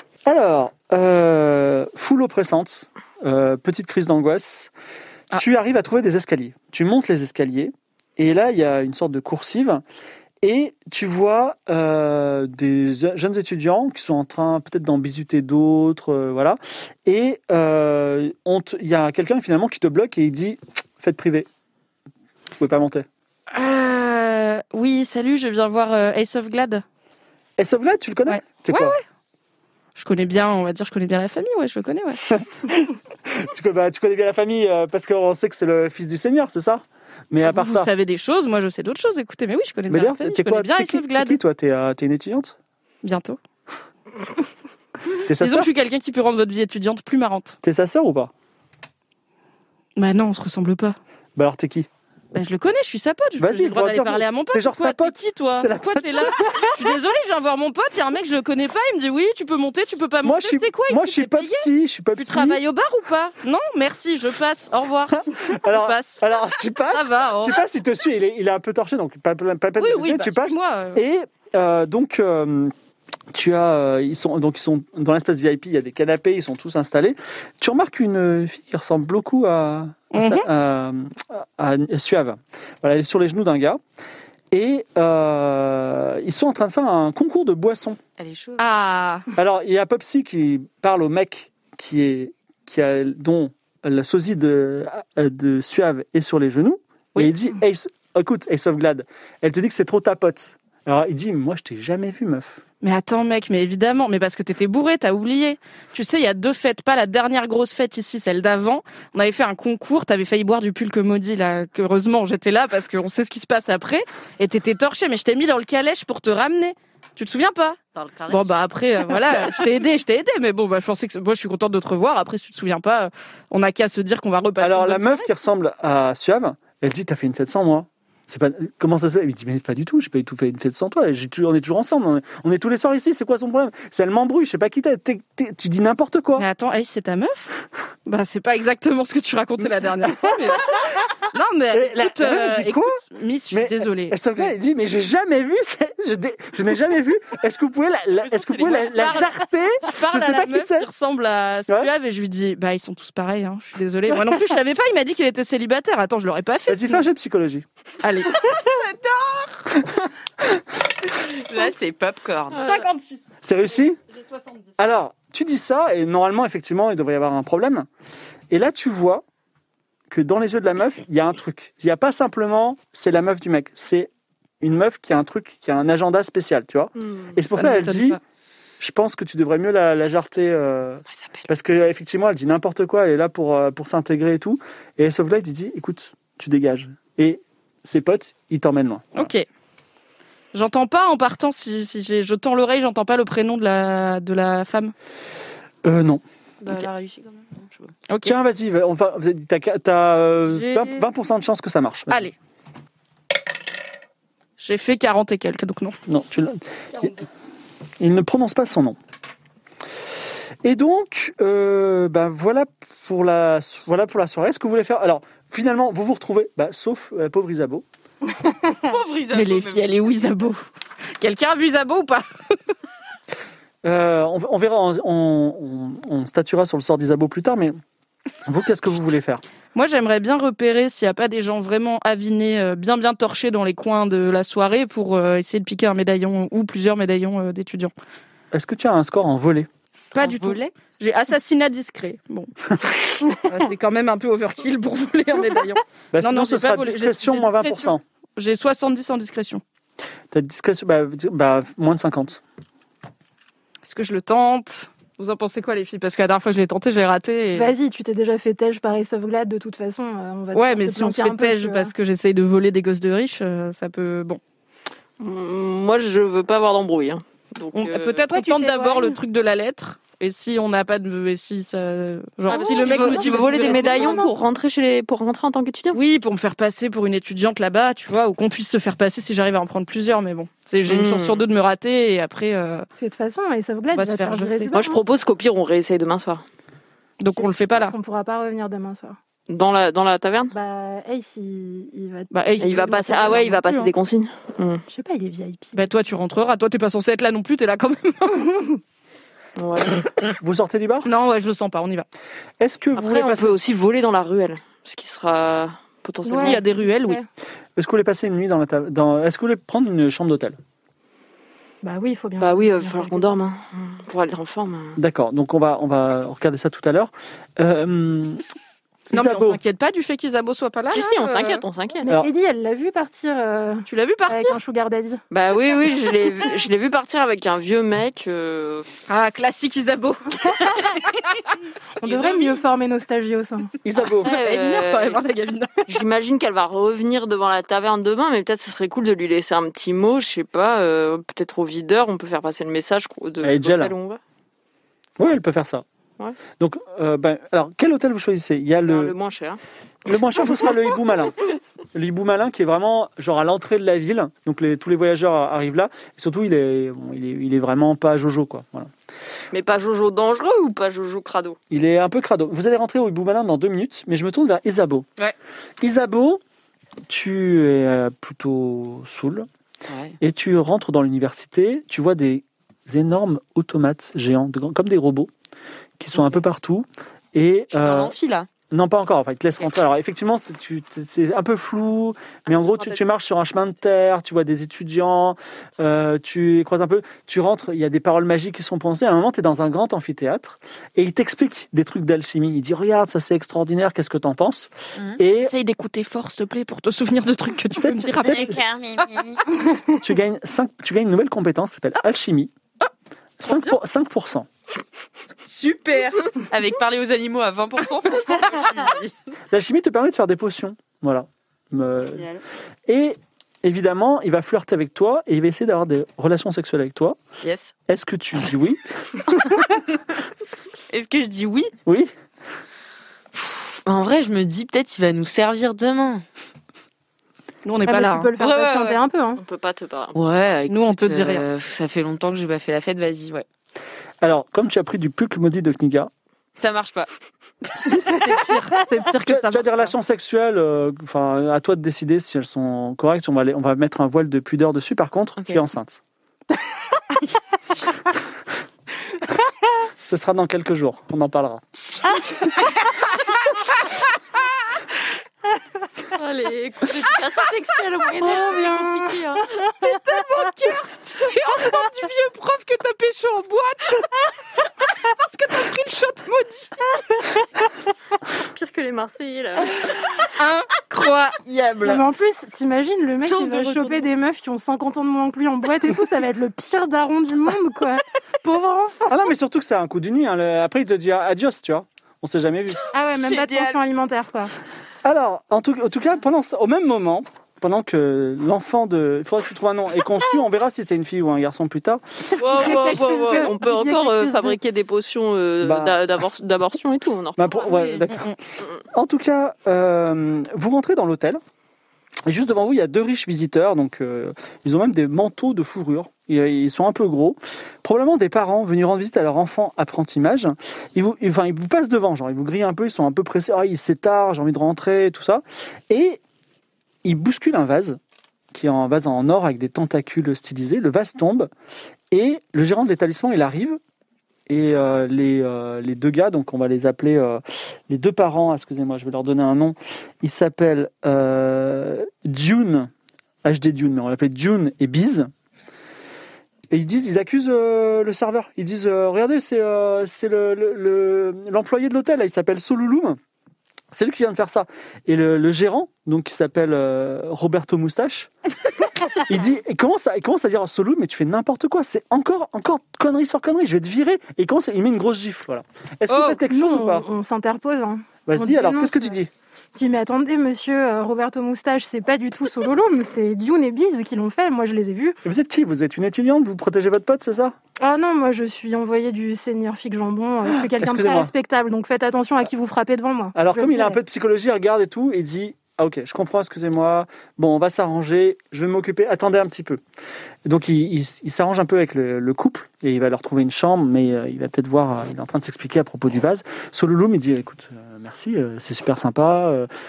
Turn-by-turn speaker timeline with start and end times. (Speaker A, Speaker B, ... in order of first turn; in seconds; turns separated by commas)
Speaker A: 0.3-4.7, Speaker A: 5.3-9.8, Speaker A: 10.4-21.5, Speaker A: 22.6-23.1, Speaker B: 23.5-26.8, Speaker A: 27.6-29.0, Speaker B: 28.3-29.0, Speaker B: 30.0-32.3, Speaker A: 32.3-37.9, Speaker B: 37.4-41.4, Speaker A: 39.9-42.6, Speaker B: 43.0-43.4, Speaker A: 45.2-45.7, Speaker B: 45.4-47.6, Speaker A: 47.6-48.3, Speaker B: 50.0-51.0, Speaker A: 51.4-51.9, Speaker B: 52.3-67.6, Speaker A: 53.4-56.8, Speaker A: 60.2-62.6, Speaker A: 65.3-72.7, Speaker B: 69.8-71.0, Speaker A: 73.3-83.8, Speaker B: 80.1-80.5, Speaker A: 84.5-88.0, Speaker C: 88.2-88.6, Speaker B: 88.6-89.3, Speaker A: 89.4-102.6, Speaker B: 102.8-125.3, Speaker C: 118.0-118.6, Speaker A: 124.6-136.5, Speaker B: 136.4-137.5, Speaker B: 138.1-144.5, Speaker A: 140.2-140.5, Speaker A: 141.7-150.9, Speaker C: 148.3-149.2, Speaker B: 148.6-157.1, Speaker A: 156.7-157.7, Speaker B: 158.0-158.7, Speaker C: 158.4-159.7, Speaker C: 161.1-162.9, Speaker B: 162.6-163.2, Speaker A: 163.4-164.0, Speaker B: 164.2-164.6, Speaker A: 164.8-167.9, Speaker A: 168.5-169.2, Speaker A: 170.1-174.1, Speaker A: 174.6-178.2, Speaker D: 177.0-177.4, Speaker B: 177.5-178.2, Speaker A: 178.8-189.3, Speaker C: 181.1-181.4, Speaker B: 189.2-189.5, Speaker B: 190.5-194.9, Speaker A: 195.8-196.2, Speaker C: 196.6-197.9, Speaker B: 198.1-198.3, Speaker A: 198.2-202.3, Speaker B: 200.5-201.0, Speaker B: 204.6-206.0, Speaker A: 206.1-207.1, Speaker A: 208.0-209.0, Speaker A: 210.6-217.9, Speaker C: 218.8-220.3, Speaker B: 219.3-220.7, Speaker B: 221.2-222.5, Speaker A: 223.8-227.8, Speaker A: 228.4-229.4, Speaker B: 229.8-237.9, Speaker A: 238.5-239.7, Speaker C: 240.1-240.7, Speaker B: 240.1-242.5, Speaker B: 243.3-249.6, Speaker A: 246.1-248.0, Speaker A: 250.3-252.4, Speaker B: 253.8-257.7, Speaker E: 257.5-261.9, Speaker B: 260.5-264.4, Speaker D: 265.2-268.3, Speaker B: 267.7-274.2, Speaker E: 268.3-269.2, Speaker D: 272.5-276.0, Speaker E: 272.5-274.3, Speaker B: 275.9-282.9, Speaker D: 280.9-281.4, Speaker E: 283.0-285.0, Speaker B: 283.9-284.7, Speaker D: 284.7-286.4, Speaker B: 287.2-287.9, Speaker E: 287.4-289.2, Speaker D: 289.5-290.5, Speaker E: 290.5-293.4, Speaker B: 292.3-293.9, Speaker D: 292.6-294.8, Speaker E: 294.9-295.8, Speaker B: 295.7-298.5, Speaker E: 298.4-298.8, Speaker D: 299.6-300.1, Speaker A: 300.4-301.1, Speaker B: 301.1-302.1, Speaker A: 302.6-303.6, Speaker D: 303.0-306.6, Speaker E: 306.2-307.3, Speaker B: 306.3-307.2, Speaker A: 307.8-310.6, Speaker E: 311.8-313.3, Speaker D: 312.4-315.0, Speaker A: 315.0-318.4, Speaker A: 319.1-319.6, Speaker B: 319.1-321.6, Speaker D: 320.9-322.1, Speaker E: 322.1-325.2, Speaker B: 323.9-324.6, Speaker D: 325.3-328.9, Speaker B: 329.1-330.7, Speaker E: 332.0-333.7, Speaker C: 332.1-332.6, Speaker A: 333.8-334.3, Speaker D: 334.2-335.2, Speaker B: 334.2-335.9, Speaker D: 335.9-344.2, Speaker A: 343.4-343.9, Speaker A: 345.2-345.8, Speaker A: 346.6-349.1, Speaker D: 348.9-349.6, Speaker A: 350.1-351.4, Speaker A: 351.9-358.9, Speaker D: 359.5-361.6, Speaker A: 361.7-365.1, Speaker A: 365.8-366.4, Speaker A: 367.1-369.5, Speaker C: 369.9-370.2, Speaker A: 370.2-375.3, Speaker A: 376.0-378.1, Speaker C: 377.8-378.5, Speaker A: 378.7-395.5, Speaker B: 395.4-398.5, Speaker A: 397.7-398.6, Speaker C: 398.2-399.4, Speaker A: 400.0-402.5, Speaker A: 403.4-404.5, Speaker C: 405.4-409.2, Speaker A: 409.5-412.3, Speaker C: 412.1-412.4, Speaker A: 412.9-417.2, Speaker C: 417.4-417.7, Speaker A: 417.9-419.3, Speaker C: 420.9-421.7, Speaker A: 421.9-422.1, Speaker C: 423.3-426.2, Speaker B: 427.6-428.3, Speaker E: 427.9-429.4, Speaker C: 428.4-429.0, Speaker D: 429.4-430.2, Speaker C: 430.1-433.5, Speaker B: 430.7-431.4, Speaker A: 434.2-436.1, Speaker C: 436.6-437.1, Speaker A: 437.8-438.2, Speaker B: 437.9-439.9, Speaker A: 439.2-446.0, Speaker A: 450.0-451.8, Speaker D: 456.1-459.5, Speaker E: 458.2-459.7, Speaker B: 459.8-464.1, Speaker B: 465.0-466.9, Speaker D: 468.4-469.9, Speaker B: 470.3-471.4, Speaker C: 471.4-472.0, Speaker E: 471.8-479.3, Speaker C: 473.2-474.1, Speaker A: 479.1-482.8, Speaker E: 482.9-484.5, Speaker C: 483.1-483.8, Speaker A: 485.0-492.0, Speaker C: 492.4-493.5, Speaker D: 492.4-497.7, Speaker E: 492.4-494.6, Speaker A: 495.6-496.0, Speaker A: 497.4-498.3, Speaker C: 497.7-498.0, Speaker B: 498.1-498.4, Speaker A: 498.9-501.4, Speaker A: 502.3-516.2, Speaker A: 517.0-518.0, Speaker A: 518.5-521.5, Speaker A: 522.1-523.8, Speaker A: 524.5-532.9, Speaker A: 533.4-535.3, Speaker A: 536.7-543.2, Speaker A: 543.9-548.3, Speaker A: 549.2-557.1, Speaker B: 556.1-556.4, Speaker E: 556.5-559.1, Speaker A: 558.3-559.3, Speaker E: 559.8-565.2, Speaker A: 565.2-567.5, Speaker E: 567.8-574.0, Speaker A: 570.7-571.3, Speaker A: 573.4-579.8, Speaker A: 580.5-589.7